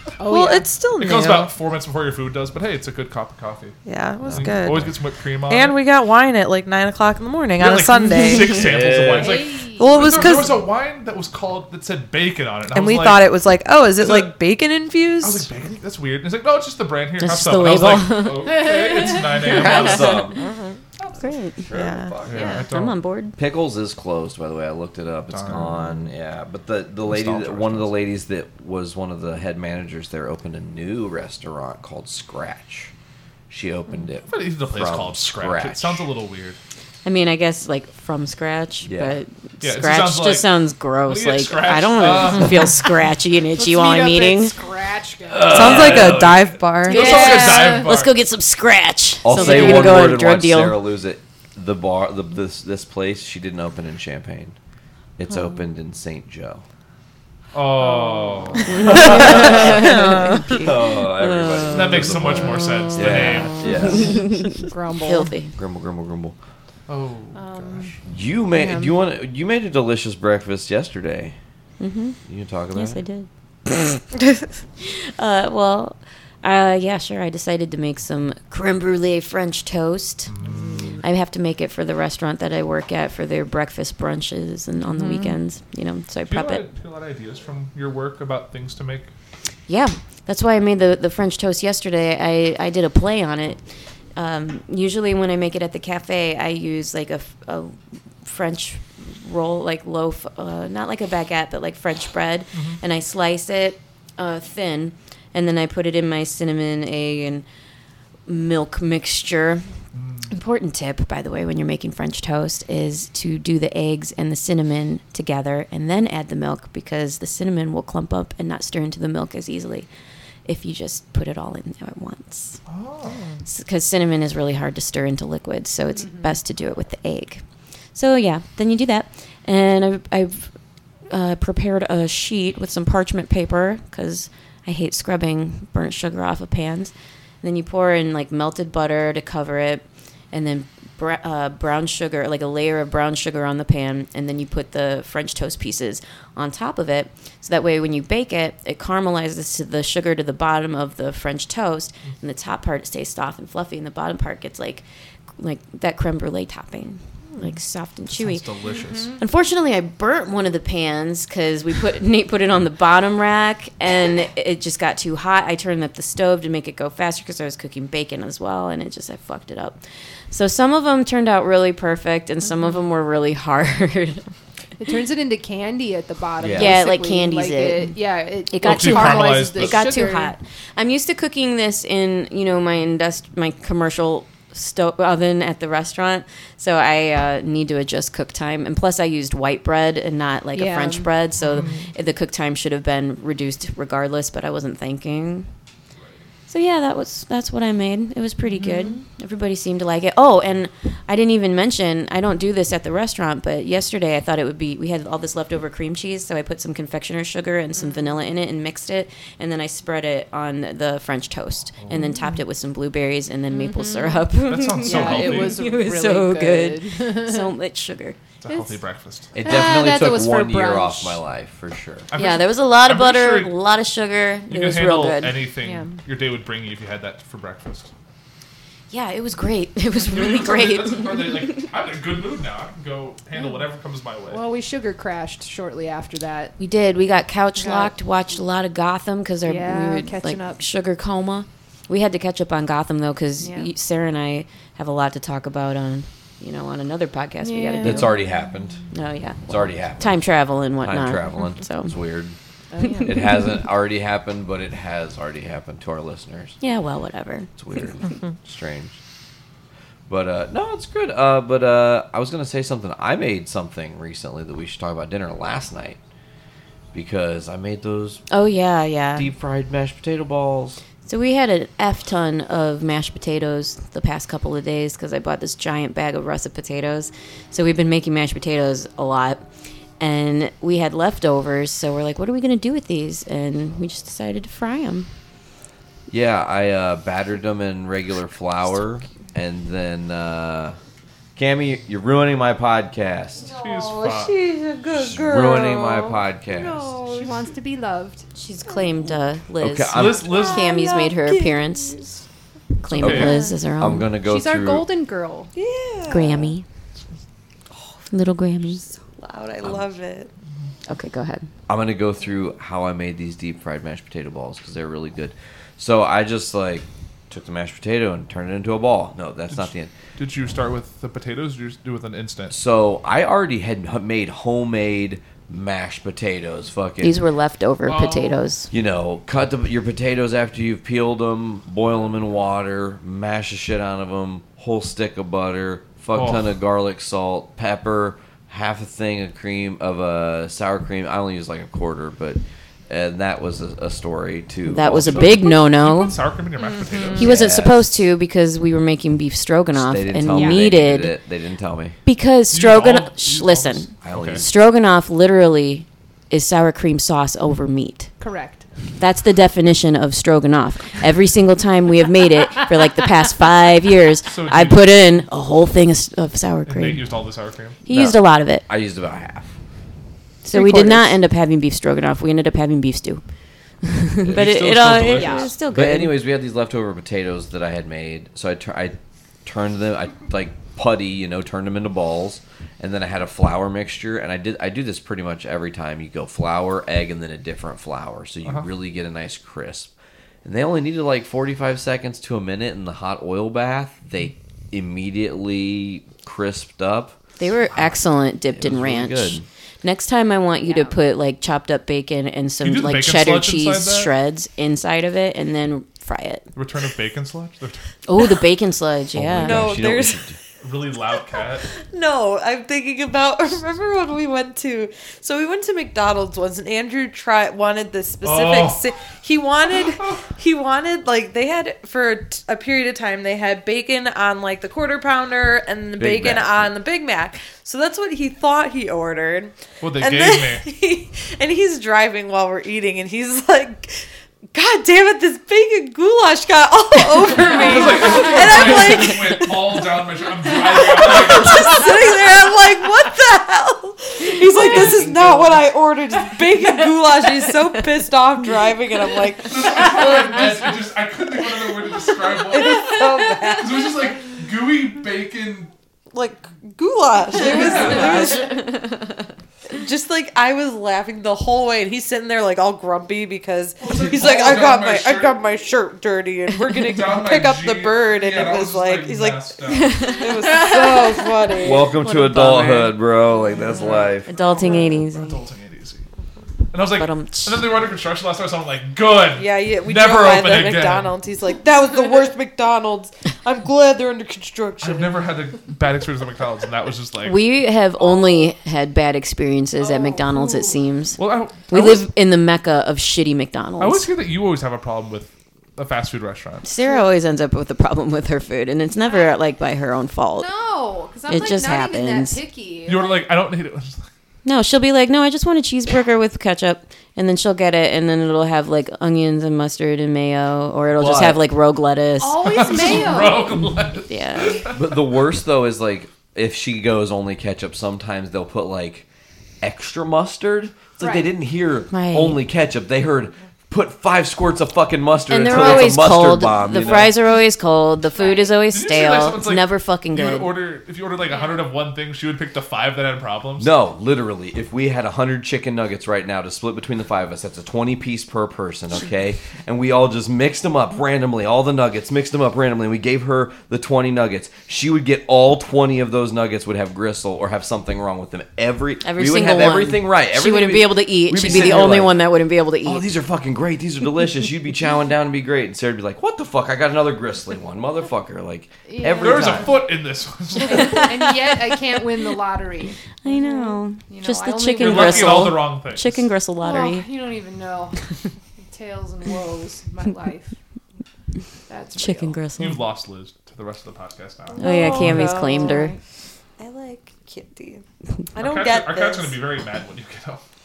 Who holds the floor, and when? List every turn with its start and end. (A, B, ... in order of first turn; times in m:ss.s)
0:00.2-0:00.7 A
0:00.2-0:01.5 B
0:01.0-0:05.8 C
0:03.8-0:04.9 B
0:04.3-0:04.6 D
0:05.4-0:08.7 B
0:07.6-0:13.3 C
0:08.5-0:09.4 D
0:09.2-0:10.4 A
0:09.8-0:10.6 B
0:12.7-0:15.5 B
0:13.9-0:14.4 C
0:15.2-0:20.3 C
0:17.2-0:18.7 E
0:18.6-0:19.7 A
0:19.4-0:20.5 D
0:19.7-0:20.0 E
0:20.3-0:20.8 B
0:21.1-0:21.6 E
0:21.6-0:22.6 D
0:21.7-0:22.6 B
0:22.2-0:23.0 C
0:22.4-0:23.4 E
0:23.4-0:32.9 D
0:25.3-0:26.1 C
0:27.0-0:27.9 C
0:33.5-0:36.0 D
0:34.2-0:36.6 C
0:37.0-0:44.6 E
0:38.8-0:39.2 D
0:39.6-0:42.9 C
0:43.5-0:46.0 A
0:45.3-0:46.4 D
0:45.5-0:47.3 B
0:45.6-0:48.2 C
0:46.8-0:47.9 A
0:46.9-0:50.8 E
0:49.2-0:54.6 D
0:49.3-0:50.1 A
0:55.2-0:56.6 D
0:57.5-0:59.5 C
0:57.8-0:58.7 A
0:58.6-1:05.5 E
0:58.8-1:04.2 D
0:59.7-1:00.7 B
1:01.7-1:03.7 C
1:04.1-1:05.3 A
1:05.5-1:06.4 D
1:06.9-1:07.9 C
1:07.3-1:07.9 A
1:08.0-1:11.4 D
1:08.5-1:08.9 B
1:11.8-1:12.2 E
1:12.2-1:13.0 D
1:12.7-1:13.8 E
1:14.8-1:20.3 E
1:20.3-1:21.0 C
1:20.4-1:21.0 B
1:21.0-1:26.6 E
1:26.3-1:29.1 C
1:29.7-1:33.6 E
1:34.1-1:47.4 E
1:42.5-1:42.8 C
1:48.3-1:49.7 E
1:49.9-1:50.3 C
1:50.3-1:59.9 E
2:00.4-2:02.6 E
2:02.7-2:03.2 C
2:03.0-2:03.4 B
2:03.4-2:07.4 E
2:05.9-2:06.4 A
2:07.9-2:10.5 E
2:11.1-2:34.8 E
2:35.4-2:38.5 E
2:38.1-2:39.1 C
2:38.6-2:39.2 A
2:39.2-2:54.3 E
2:54.8-3:00.4 A
2:56.4-2:56.8 D
2:56.5-2:57.9 E
2:58.5-3:15.5 E
2:58.6-2:59.8 C
3:10.5-3:11.1 A
3:11.4-3:11.8 C
3:16.5-3:38.2 E
3:18.5-3:19.0 A
3:27.8-3:28.2 A
3:31.8-3:32.1 C
3:33.5-3:37.5 A
3:34.4-3:35.6 C
3:38.4-3:39.3 C
3:38.4-3:38.8 A
3:39.3-3:42.1 D
3:39.4-3:41.2 A
3:42.1-3:43.5 C
3:42.1-3:45.4 E
3:44.5-3:47.9 C
3:45.6-3:46.0 A
3:48.9-3:51.7 E
3:50.0-3:54.4 C
3:53.3-3:53.7 A
3:54.2-3:56.5 A
3:56.6-4:08.1 E
3:57.6-3:58.0 A
3:59.4-4:00.6 A
4:03.4-4:03.7 A
4:07.4-4:08.1 A
4:07.8-4:08.8 D
4:08.9-4:11.9 E
4:09.5-4:12.4 D
4:12.7-4:13.4 A
4:13.0-4:16.6 D
4:16.6-4:17.5 E
4:17.6-4:19.0 D
4:20.1-4:26.0 D
4:26.9-4:28.2 D
4:28.3-4:29.3 E
4:29.1-4:30.8 D
4:31.0-4:39.4 E
4:40.0-4:45.1 E
4:46.1-4:50.8 D
4:51.4-4:53.5 D
4:53.4-4:54.3 C
4:53.4-4:56.6 B
4:54.9-4:57.0 D
4:56.6-4:58.2 A
4:58.3-5:02.0 E
4:59.6-5:00.4 D
4:59.9-5:00.7 C
5:00.3-5:02.2 B
5:02.8-5:04.1 E
5:02.9-5:03.4 C
5:03.0-5:04.8 D
5:04.2-5:05.5 A
5:05.5-5:06.5 B
5:06.1-5:06.6 E
5:07.7-5:08.0 B
5:08.1-5:08.8 E
5:08.8-5:10.3 B
5:10.8-5:11.5 E
5:11.7-5:19.9 D
5:19.5-5:22.5 C
5:22.5-5:27.2 D
5:27.0-5:28.7 E
5:27.8-5:28.4 C
5:28.7-5:45.5 D
5:36.1-5:36.5 C
5:44.7-5:46.2 E
5:44.8-5:47.3 C
5:46.6-5:47.2 A
5:47.2-5:51.1 E
5:47.2-5:48.0 D
5:49.7-5:52.0 D
5:50.3-5:50.7 A
5:52.0-5:58.1 E
5:52.5-5:54.4 C
5:54.0-5:54.5 D
5:58.2-5:58.7 A
5:59.0-6:07.1 E
6:04.3-6:05.0 C
6:06.6-6:07.8 C
6:07.8-6:08.6 E
6:07.9-6:09.5 D
6:10.4-6:13.2 E
6:10.5-6:11.1 B
6:13.8-6:16.1 E
6:14.2-6:15.5 C
6:15.1-6:15.5 A
6:15.7-6:29.9 D
6:30.4-6:37.2 D
6:37.4-6:46.4 E
6:38.6-6:39.4 D
6:40.6-6:41.0 A
6:42.6-6:44.1 C
6:46.5-6:47.8 C
6:48.0-6:49.6 E
6:49.1-6:50.4 D
6:49.3-6:50.2 B
6:50.6-6:51.7 C
6:51.8-7:19.8 B
6:58.2-6:58.8 C
7:06.0-7:06.7 D
7:09.8-7:10.6 C
7:17.3-7:22.0 C
7:20.4-7:30.5 B
7:29.4-7:35.7 C
7:32.4-7:34.2 B
7:36.1-7:38.6 B
7:37.3-7:38.5 C
7:37.8-7:38.7 E
7:39.7-7:49.6 B
7:43.8-7:45.4 C
7:46.8-7:50.1 C
7:49.7-7:50.7 E
7:50.2-7:51.9 B
7:51.6-7:54.3 D
7:52.0-7:52.9 E
7:53.8-7:56.0 C
7:54.2-7:55.4 E
7:56.7-8:01.2 C
7:56.9-7:57.7 E
7:59.3-8:05.3 B
8:04.8-8:07.5 C
8:07.2-8:14.1 E
8:08.0-8:08.4 A
8:09.8-8:10.8 A
8:11.2-8:12.1 C
8:13.8-8:16.6 C
8:16.6-8:20.5 E
8:16.8-8:17.1 A
8:19.0-8:19.3 A
8:20.3-8:23.2 A
8:21.3-8:22.4 E
8:22.9-8:24.0 C
8:24.4-8:33.4 E
8:30.9-8:31.4 D
8:32.2-8:33.6 A
8:32.4-8:34.8 C
8:34.1-8:34.7 E
8:34.6-8:39.0 D
8:39.6-8:47.2 D
8:41.0-8:41.3 A
8:41.9-8:42.4 E
8:45.3-8:50.5 E
8:45.5-8:45.9 A
8:48.1-8:48.6 A
8:48.7-8:53.7 C
8:51.2-8:51.6 A
8:53.6-9:12.3 D
9:09.0-9:13.1 E
9:12.8-9:19.8 D
9:18.8-9:19.8 A
9:19.2-9:21.2 C
9:20.6-9:25.5 A
9:20.7-9:21.3 E
9:23.2-9:27.1 E
9:24.8-9:26.3 C
9:26.6-9:28.0 A
9:28.7-9:30.5 A
9:31.7-9:32.4 A
9:32.0-9:32.8 E
9:32.6-9:35.4 C
9:34.5-9:36.0 B
9:34.6-9:36.0 E
9:36.6-9:39.4 B
9:38.4-9:40.4 C